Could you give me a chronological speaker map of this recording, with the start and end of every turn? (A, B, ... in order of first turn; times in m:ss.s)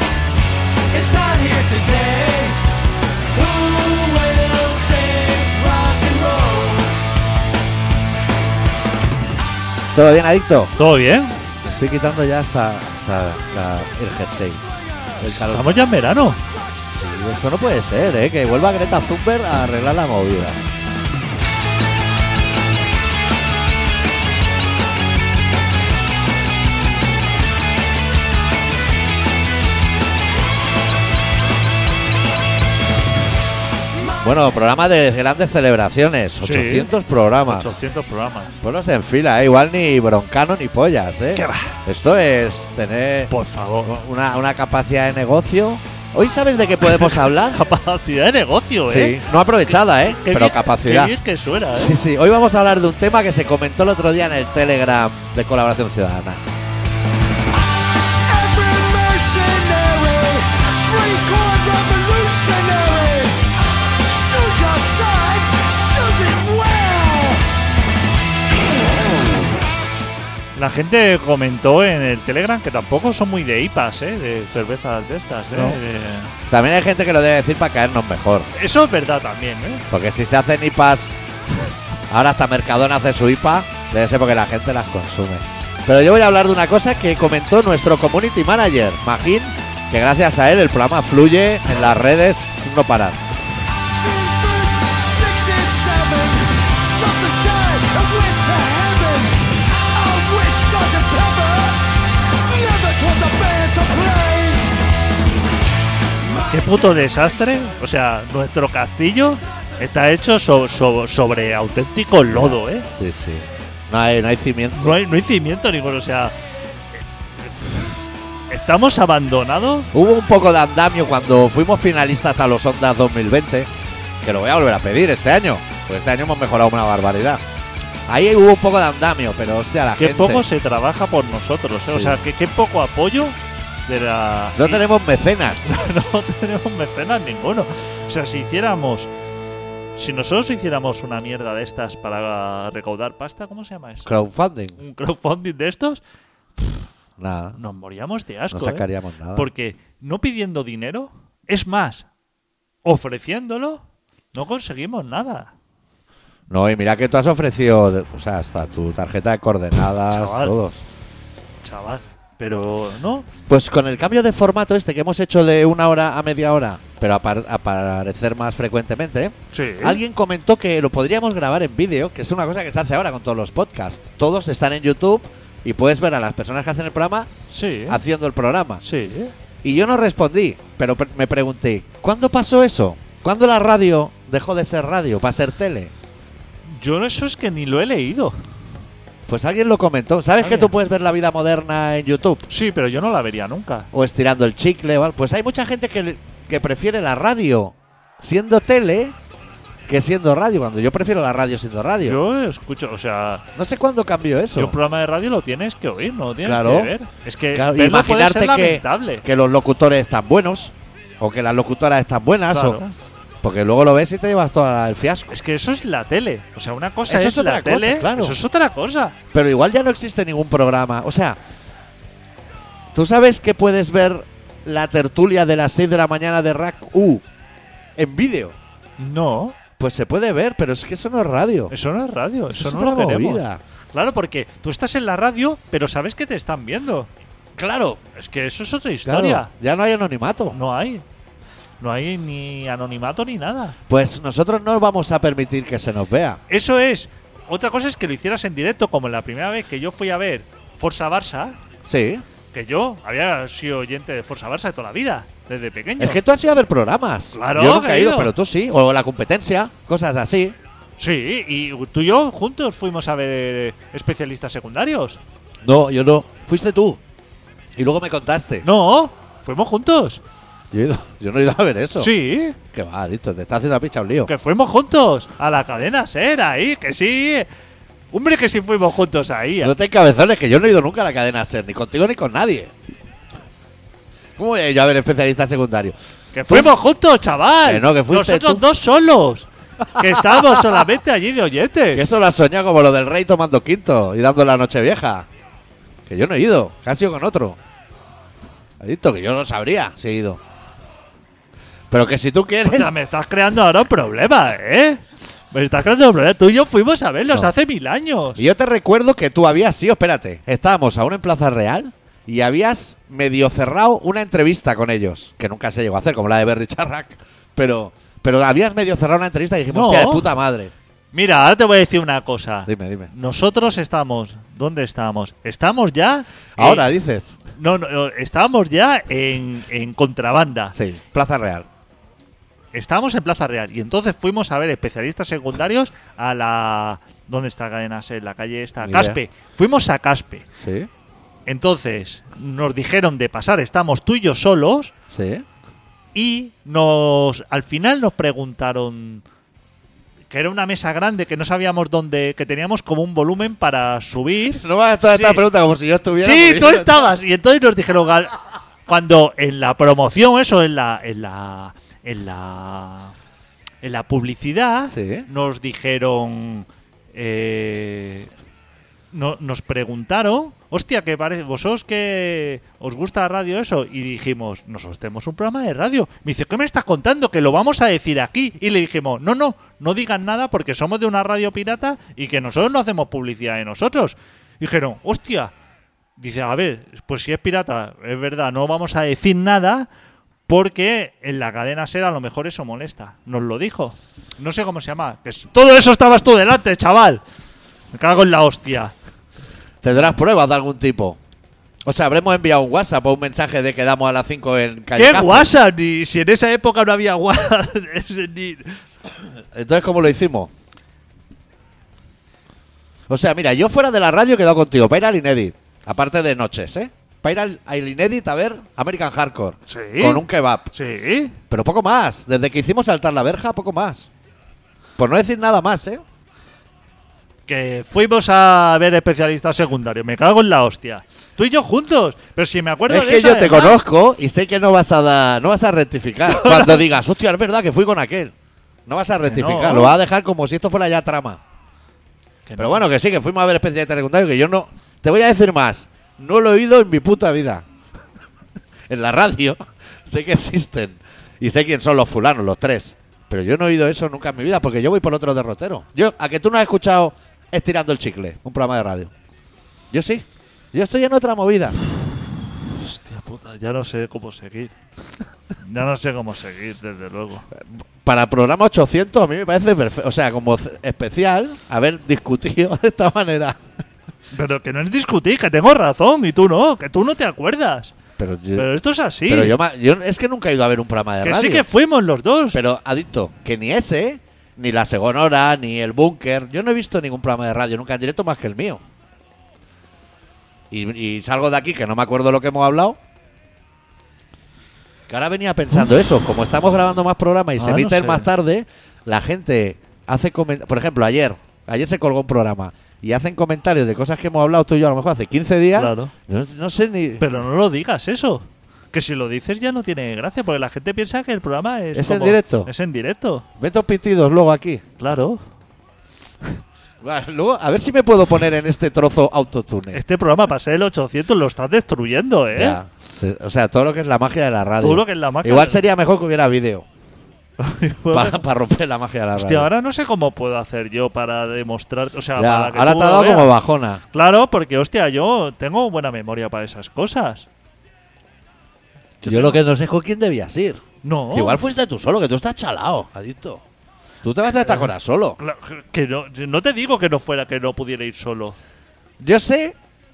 0:00.9-0:02.6 A
0:03.3-0:06.9 A
0:10.0-0:10.8 B
0:10.8-0:11.4 C
0:11.6-0:14.6 B
0:15.2-0:15.7 B
0:15.3-0:16.4 C
0:17.0-0:20.6 B
0:34.2-0:37.8 B
0:36.4-0:36.9 C
0:37.5-0:38.6 C
0:38.6-0:43.3 B
0:41.3-0:41.7 C
0:43.3-0:44.0 C
0:43.8-0:47.6 B
0:47.4-0:52.0 C
0:48.9-0:51.2 B
0:51.7-0:56.4 B
0:58.1-1:03.5 A
1:04.0-1:07.5 A
1:10.6-1:16.3 C
1:15.5-1:15.8 B
1:16.5-1:18.5 B
1:18.6-1:19.8 C
1:19.9-1:21.2 B
1:22.1-1:33.2 B
1:33.9-1:44.8 A
1:46.5-1:52.9 C
1:52.3-1:55.0 B
1:54.8-1:56.3 C
1:57.4-1:58.0 C
1:58.5-1:59.9 C
1:59.9-2:03.7 B
2:04.2-2:07.4 B
2:08.1-2:10.4 B
2:10.0-2:14.8 C
2:11.8-2:12.2 B
2:14.6-2:15.8 B
2:15.7-2:19.1 C
2:20.0-2:24.1 C
2:24.0-2:24.8 B
2:24.8-2:26.0 C
2:27.2-2:27.6 B
2:27.6-2:32.1 C
2:28.5-2:29.5 B
2:32.8-2:35.5 C
2:36.5-2:40.8 B
2:40.1-2:40.6 C
2:41.6-2:43.3 C
2:43.5-2:57.3 B
2:49.5-2:50.0 C
2:57.5-2:58.0 C
2:57.9-2:58.8 B
2:58.8-2:59.3 C
2:59.6-3:05.9 B
3:06.7-3:08.4 C
3:09.3-3:12.5 B
3:10.4-3:10.7 C
3:12.5-3:13.9 C
3:13.9-3:19.2 B
3:19.9-3:22.2 B
3:22.0-3:23.4 C
3:23.6-3:24.8 B
3:24.6-3:29.2 C
3:26.4-3:26.9 B
3:27.5-3:32.8 B
3:32.5-3:32.9 C
3:33.4-3:35.4 B
3:35.3-3:39.2 C
3:37.1-3:38.4 B
3:39.3-3:41.4 B
3:42.9-3:47.2 B
3:48.0-3:48.6 B
3:49.0-3:49.6 C
3:49.8-3:51.7 B
3:51.7-3:57.1 C
3:52.5-3:53.6 B
3:57.6-3:58.0 B
3:58.2-3:59.5 C
3:59.0-4:00.6 B
4:00.5-4:01.0 C
4:01.8-4:03.8 C
4:03.9-4:06.4 B
4:06.5-4:11.6 C
4:11.9-4:12.2 B
4:12.5-4:16.2 C
4:16.0-4:20.6 B
4:17.3-4:18.3 C
4:21.0-4:25.2 C
4:25.6-4:27.0 B
4:27.8-4:28.7 B
4:28.6-4:30.2 C
4:30.7-4:32.1 B
4:32.0-4:32.6 C
4:32.7-4:34.3 B
4:34.3-4:37.5 C
4:38.1-4:39.8 C
4:39.6-4:42.7 B
4:44.4-4:46.0 B
4:46.3-4:52.1 C
4:46.5-4:46.7 B
4:47.6-4:48.6 B
4:50.0-4:50.6 B
4:51.9-4:55.3 B
4:56.1-4:57.6 B
4:58.8-5:00.4 B
5:01.9-5:02.9 B
5:02.6-5:08.4 C
5:08.4-5:20.7 B
5:19.7-5:20.3 C
5:21.1-5:26.9 C
5:22.7-5:23.1 B
5:26.6-5:27.4 B
5:27.5-5:30.8 C
5:30.7-5:31.7 B
5:32.7-5:40.5 C
5:38.8-5:39.2 B
5:40.6-5:40.9 B
5:41.5-5:44.9 C
5:45.1-5:45.4 B
5:46.1-5:49.2 C
5:50.3-5:55.4 C
5:54.5-5:57.1 B
5:56.2-6:03.1 C
6:03.8-6:08.3 C
6:04.9-6:05.3 B
6:09.1-6:25.5 C
6:26.2-6:29.9 C
6:30.5-6:37.2 C
6:37.9-6:38.9 C
6:39.8-6:41.2 B
6:41.9-6:45.5 B
6:45.0-6:48.8 C
6:49.4-6:50.5 B
6:53.1-7:00.7 B
6:59.7-7:00.2 C
7:00.7-7:01.4 C
7:01.5-7:04.1 B
7:05.0-7:06.0 B
7:07.5-7:13.8 C
7:12.9-7:18.3 B
7:16.3-7:16.8 C
7:18.9-7:21.4 B
7:19.3-7:20.0 C
7:22.5-7:22.8 C
7:22.6-7:27.6 B
7:28.9-7:39.1 B
7:39.9-7:41.8 B
7:42.7-7:44.8 C
7:45.6-7:47.5 C
7:47.5-7:53.6 B
7:54.3-7:58.0 C
7:58.2-7:58.7 B
7:58.6-7:59.6 C
7:59.3-8:01.7 B
8:01.2-8:02.6 C
8:02.5-8:08.8 B
8:10.7-8:13.0 B
8:15.1-8:27.2 B
8:17.6-8:18.3 C
8:25.7-8:26.1 C
8:27.2-8:33.4 C
8:31.9-8:32.7 B
8:33.6-8:34.8 B
8:35.0-8:35.4 C
8:37.0-8:40.0 B
8:39.9-8:42.8 C
8:42.5-8:46.9 B
8:44.8-8:45.8 C
8:47.6-8:48.4 C
8:48.1-8:49.7 B
8:49.3-8:53.6 C
8:52.4-8:54.0 B
8:54.1-8:57.5 C
8:59.2-8:59.6 C
8:59.2-9:03.6 B
9:01.0-9:01.6 C
9:04.2-9:05.4 B
9:05.4-9:08.6 C
9:09.2-9:09.8 B